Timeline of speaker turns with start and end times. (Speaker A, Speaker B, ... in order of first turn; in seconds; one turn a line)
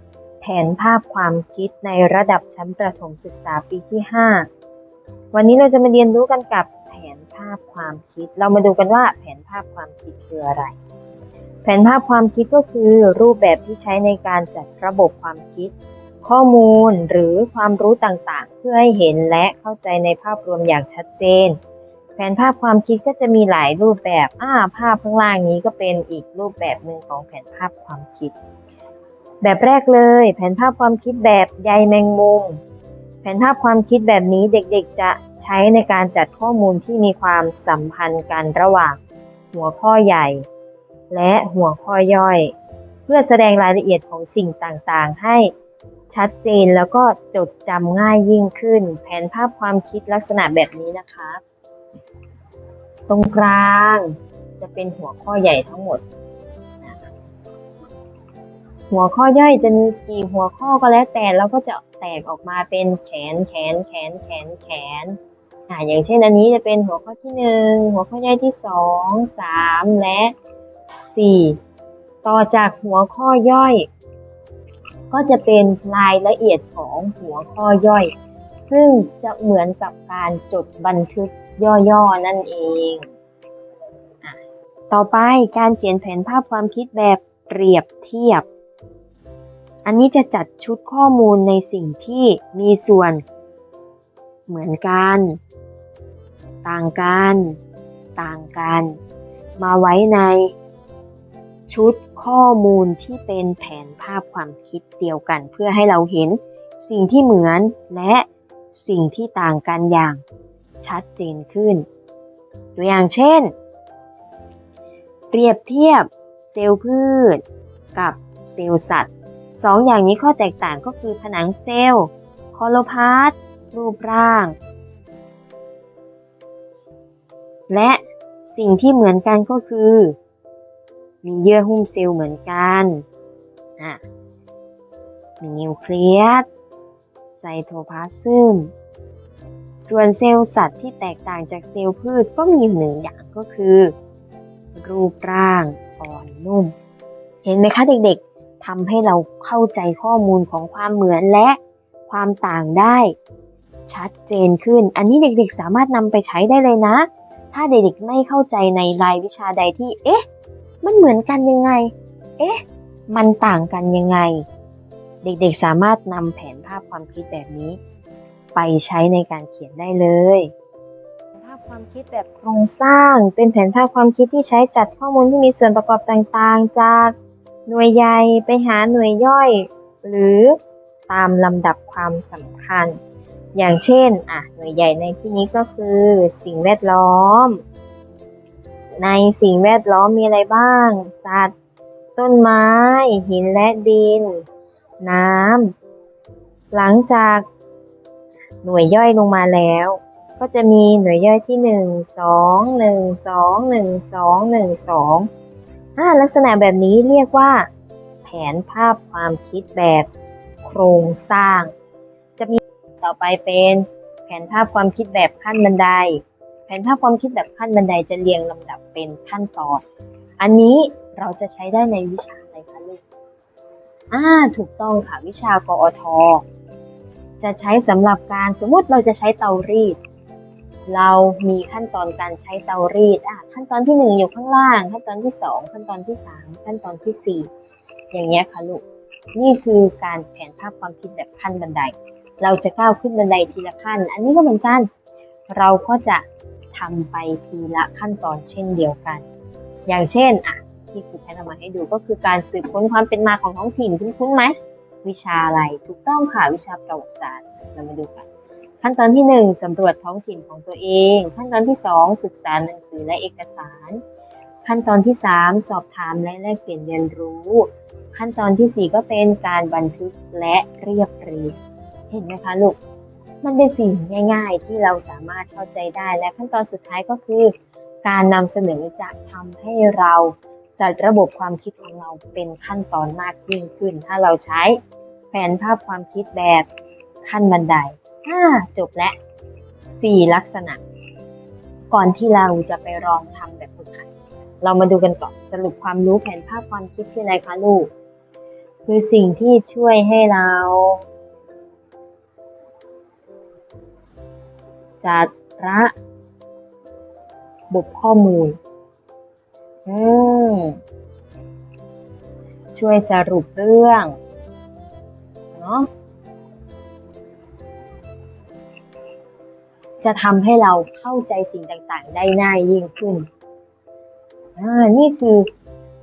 Speaker A: 0.4-4.5
Speaker A: 5.3-10.7
Speaker A: 11.6-15.7
Speaker A: 16.2-21.6
Speaker A: 22.2-28.3
Speaker A: 29.4-32.6
Speaker A: 33.2-39.0
Speaker A: 39.5-40.4
Speaker A: 41.1-42.5
Speaker A: 43.1-45.5
Speaker A: 46.1-51.4
Speaker A: 53.1-56.0
Speaker A: 58.9-65.2
Speaker A: 65.7-70.3
Speaker A: 71.0-71.6
Speaker A: 72.2-73.9
Speaker A: 75.1-83.0
Speaker A: 84.9-88.5
Speaker A: 89.8-93.2
Speaker A: 94.5-95.4
Speaker A: 96.6-97.6
Speaker A: 98.2-99.0
Speaker A: 99.6-100.5
Speaker A: 101.7-110.2
Speaker A: 110.8-111.8
Speaker A: 112.8-113.5
Speaker A: 115.3-117.4
Speaker A: 117.9-124.5
Speaker A: 127.7-130.2
Speaker A: 131.2-133.0
Speaker A: 135.4-136.4
Speaker A: 137.3-138.7
Speaker A: 139.8-143.9
Speaker A: 144.8-146.7
Speaker A: 147.4-153.1
Speaker A: 153.9-160.2
Speaker A: 160.8-164.4
Speaker A: 165.2-167.8
Speaker A: 168.5-170.5
Speaker A: 171.3-177.1
Speaker A: 177.7-183.0
Speaker A: 183.5-187.6
Speaker A: 189.0-191.5
Speaker A: 192.2-194.4
Speaker A: 195.0-195.7
Speaker A: 196.7-197.4
Speaker A: 198.6-205.3
Speaker A: 206.0-207.7
Speaker A: 208.2-210.1
Speaker A: 210.6-211.7
Speaker A: 212.4-219.8
Speaker A: 220.4-223.0
Speaker A: 224.1-226.4
Speaker A: 227.4-230.0
Speaker A: 230.9-237.5
Speaker A: 238.1-238.8
Speaker A: 239.3-244.9
Speaker A: 245.5-249.2
Speaker A: 249.9-258.3
Speaker A: 258.8-264.0
Speaker A: 264.6-271.6
Speaker A: 272.1-272.8
Speaker A: 273.4-277.5
Speaker A: 278.0-284.8
Speaker A: 285.3-286.7
Speaker A: 287.2-289.1
Speaker A: 289.8-290.8
Speaker A: 291.9-294.1
Speaker A: 294.6-297.9
Speaker A: 298.9-301.0
Speaker A: 305.0-305.9
Speaker A: 307.7-308.6
Speaker A: 309.9-310.8
Speaker A: 312.7-314.1
Speaker A: 315.5-315.9
Speaker A: 320.0-323.3
Speaker A: 324.6-325.5